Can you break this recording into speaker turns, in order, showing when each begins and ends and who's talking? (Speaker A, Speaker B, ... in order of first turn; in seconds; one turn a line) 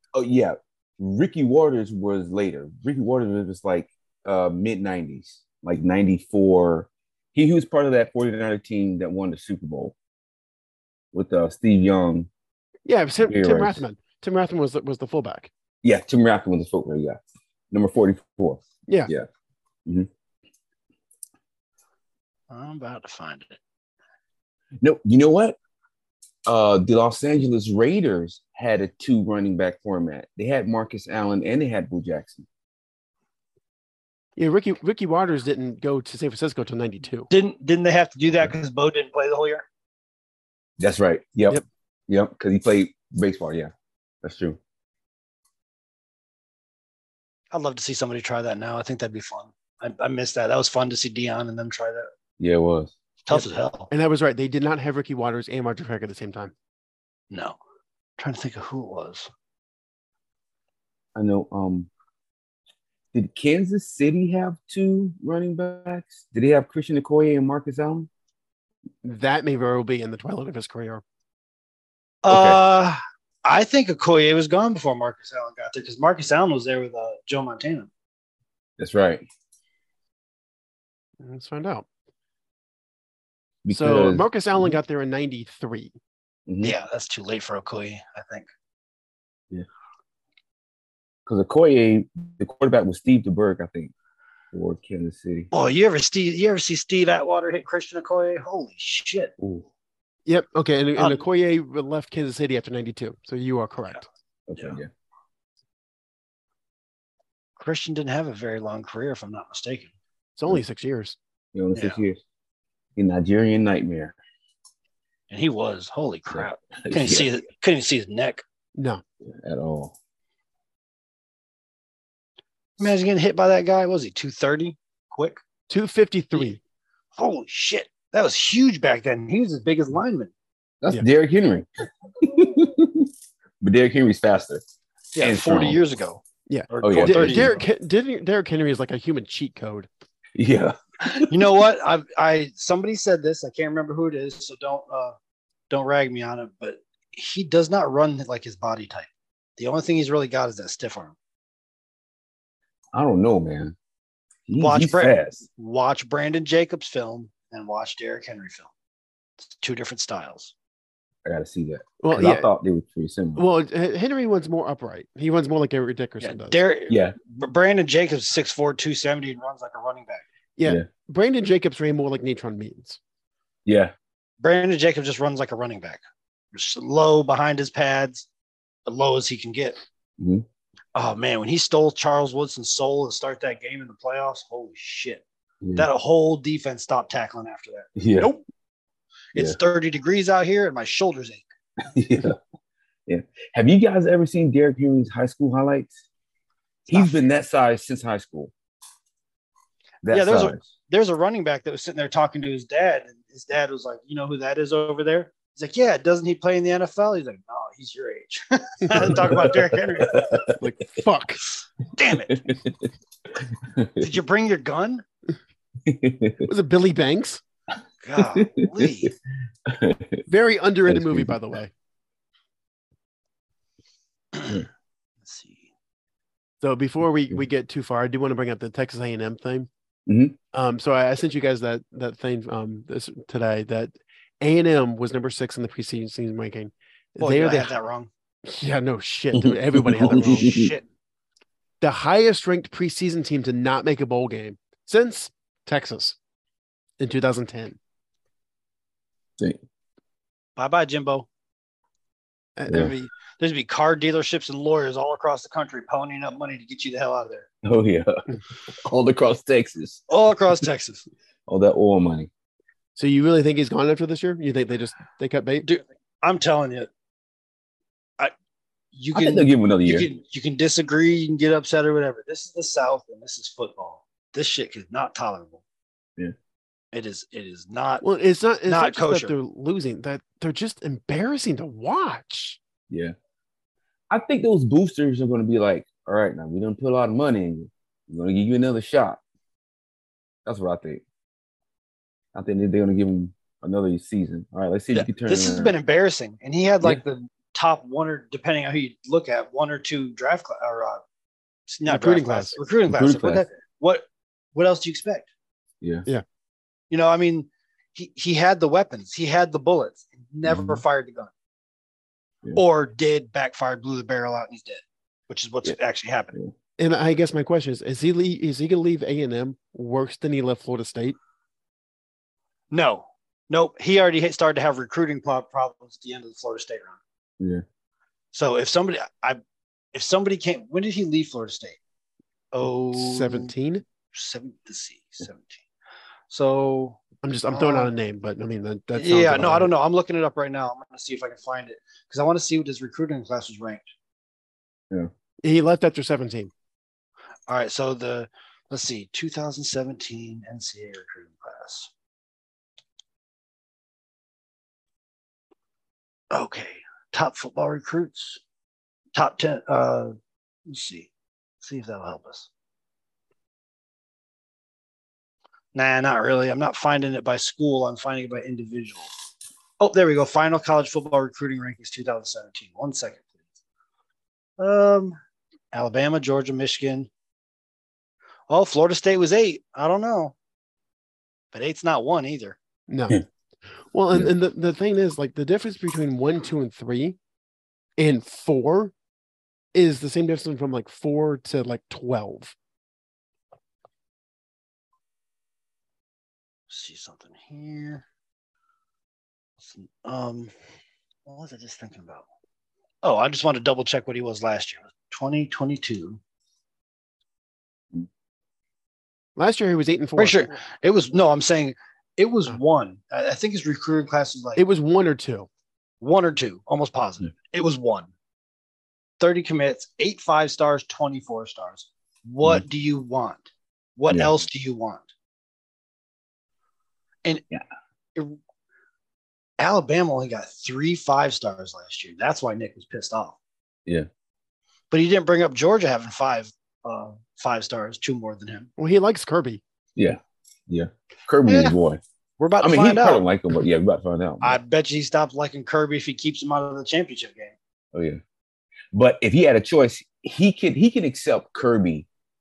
Speaker A: 0.1-9.9
Speaker A: 11.1-12.3
Speaker B: 12.9-15.5
Speaker A: 13.3-13.8
Speaker A: 15.8-17.2
Speaker A: 17.7-19.3
Speaker C: 22.5-23.6
Speaker A: 24.8-25.6
Speaker A: 26.5-32.5
Speaker B: 34.4-37.3
Speaker C: 37.3-39.6
Speaker A: 40.8-43.7
Speaker A: 44.2-44.6
Speaker C: 47.5-52.1
Speaker A: 52.4-52.9
Speaker C: 53.3-53.9
Speaker B: 53.3-56.5
Speaker C: 57.3-57.6
Speaker C: 58.2-59.3
Speaker A: 61.1-61.9
Speaker A: 63.1-68.1
Speaker B: 69.0-71.0
Speaker C: 72.2-77.9
Speaker A: 72.3-72.6
Speaker A: 78.8-79.2
Speaker B: 81.2-81.9
Speaker A: 83.7-84.8
Speaker B: 83.7-85.9
Speaker A: 86.5-86.8
Speaker C: 86.6-88.5
Speaker A: 91.3-93.9
Speaker A: 94.5-95.5
Speaker C: 95.5-99.3
Speaker A: 99.4-99.7
Speaker B: 100.3-104.1
Speaker A: 104.5-104.9
Speaker C: 107.6-109.9
Speaker B: 110.4-111.2
Speaker A: 111.5-112.2
Speaker C: 111.8-112.0
Speaker A: 113.0-114.2
Speaker C: 115.3-118.4
Speaker A: 116.3-117.3
Speaker B: 118.8-119.0
Speaker A: 119.2-120.0
Speaker C: 122.8-125.4
Speaker B: 125.7-126.6
Speaker C: 127.2-130.3
Speaker A: 130.8-131.7
Speaker A: 132.2-133.1
Speaker A: 133.6-134.6
Speaker C: 135.2-137.7
Speaker A: 135.2-135.8
Speaker B: 136.5-139.9
Speaker A: 136.8-137.6
Speaker A: 140.4-141.3
Speaker C: 141.2-145.2
Speaker C: 145.7-151.2
Speaker A: 152.9-153.8
Speaker A: 154.5-155.4
Speaker C: 154.6-158.7
Speaker C: 159.4-160.5
Speaker A: 161.2-163.4
Speaker B: 162.0-162.5
Speaker B: 163.4-166.6
Speaker C: 166.2-170.2
Speaker A: 166.9-167.2
Speaker B: 170.6-173.0
Speaker A: 173.7-173.9
Speaker C: 174.4-176.0
Speaker C: 176.5-178.3
Speaker C: 178.9-179.8
Speaker A: 180.2-180.4
Speaker C: 180.9-185.2
Speaker A: 185.6-185.9
Speaker C: 185.8-187.9
Speaker A: 188.0-188.4
Speaker C: 189.3-191.4
Speaker A: 191.8-192.4
Speaker A: 193.1-195.9
Speaker C: 196.9-197.2
Speaker A: 196.9-198.5
Speaker A: 200.0-200.6
Speaker C: 200.1-210.2
Speaker A: 208.9-210.6
Speaker B: 210.6-211.4
Speaker C: 212.0-212.4
Speaker A: 212.4-212.9
Speaker A: 213.4-214.1
Speaker C: 214.0-215.0
Speaker A: 215.8-216.4
Speaker B: 216.5-217.4
Speaker C: 218.0-219.1
Speaker A: 218.2-219.1
Speaker A: 219.7-220.2
Speaker B: 220.3-221.7
Speaker A: 220.9-221.3
Speaker C: 224.3-224.7
Speaker C: 225.2-225.7
Speaker B: 226.6-229.7
Speaker A: 230.1-230.4
Speaker B: 230.5-237.7
Speaker C: 237.2-238.1
Speaker B: 238.5-240.6
Speaker A: 239.3-240.7
Speaker C: 240.0-240.8
Speaker B: 241.8-246.2
Speaker B: 247.0-247.8
Speaker C: 250.6-251.3
Speaker B: 252.6-253.1
Speaker C: 253.4-257.5
Speaker A: 257.6-258.2
Speaker A: 258.8-260.0
Speaker C: 260.1-261.1
Speaker A: 261.5-262.3
Speaker B: 263.0-265.7
Speaker C: 265.6-266.9
Speaker C: 268.9-275.6
Speaker A: 269.1-270.1
Speaker C: 276.9-278.0
Speaker B: 278.0-282.6
Speaker C: 278.7-279.3
Speaker A: 282.9-283.1
Speaker A: 284.1-289.2
Speaker A: 290.5-291.0
Speaker A: 292.4-295.7
Speaker C: 294.9-301.0
Speaker C: 301.7-305.3
Speaker B: 301.9-302.6
Speaker A: 302.9-303.4
Speaker C: 306.9-311.3
Speaker A: 310.4-310.8
Speaker C: 312.6-316.4
Speaker B: 316.8-321.2
Speaker C: 322.7-327.0
Speaker C: 328.3-329.4
Speaker C: 329.9-331.8
Speaker C: 332.5-333.5
Speaker B: 332.9-333.8
Speaker C: 334.1-335.6
Speaker C: 336.3-337.9
Speaker B: 337.2-339.7
Speaker C: 338.9-343.9
Speaker B: 345.4-346.5
Speaker C: 347.5-351.9
Speaker C: 356.3-358.4
Speaker C: 359.1-360.1
Speaker C: 360.7-361.1
Speaker C: 361.6-362.5
Speaker C: 365.8-369.1
Speaker C: 369.8-373.3
Speaker C: 374.6-375.2
Speaker C: 375.7-377.1
Speaker C: 378.5-380.4
Speaker C: 381.5-382.6
Speaker B: 382.9-383.2
Speaker B: 383.9-387.2
Speaker B: 388.0-388.9
Speaker B: 389.7-392.6
Speaker C: 396.7-398.1
Speaker C: 399.6-400.5
Speaker C: 401.3-402.2
Speaker C: 403.0-406.2
Speaker B: 409.4-410.4
Speaker C: 410.2-414.6
Speaker B: 414.6-415.5
Speaker C: 416.0-418.1
Speaker C: 419.2-423.5
Speaker C: 424.0-425.1
Speaker C: 429.6-433.4
Speaker C: 434.9-438.7
Speaker B: 438.8-439.6
Speaker A: 440.0-442.0
Speaker C: 441.4-441.8
Speaker C: 442.4-443.2
Speaker A: 442.6-444.6
Speaker C: 444.4-447.5
Speaker A: 447.9-448.2
Speaker A: 448.9-452.1